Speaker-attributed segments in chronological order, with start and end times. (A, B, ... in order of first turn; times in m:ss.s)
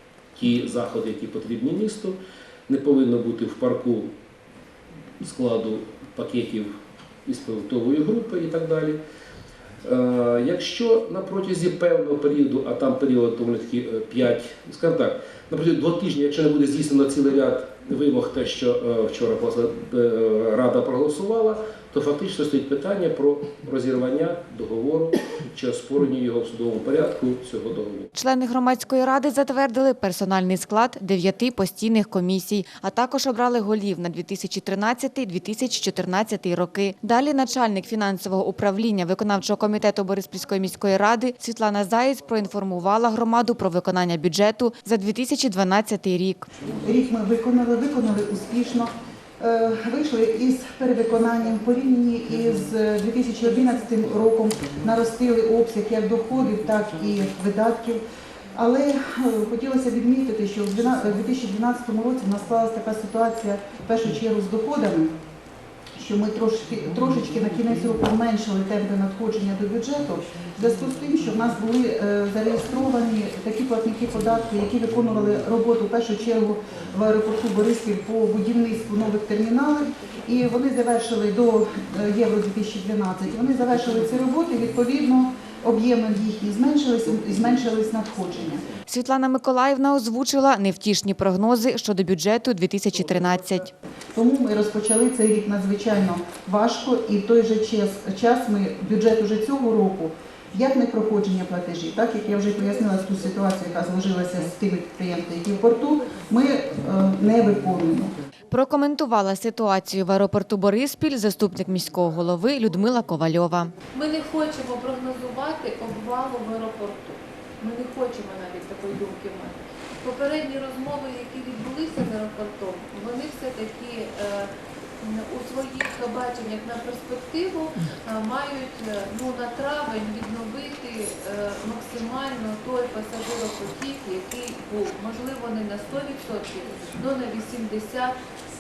0:00.4-0:04.2 A
0:05.2-0:09.0 A
0:09.8-0:28.1 A
0:28.1-0:46.5 B
0:46.8-0:58.0 C
0:58.5-1:05.2 C
1:06.0-1:28.6 C
1:28.9-1:33.7 B
1:34.2-1:48.1 C
1:48.5-1:53.7 B
1:53.9-2:18.2 D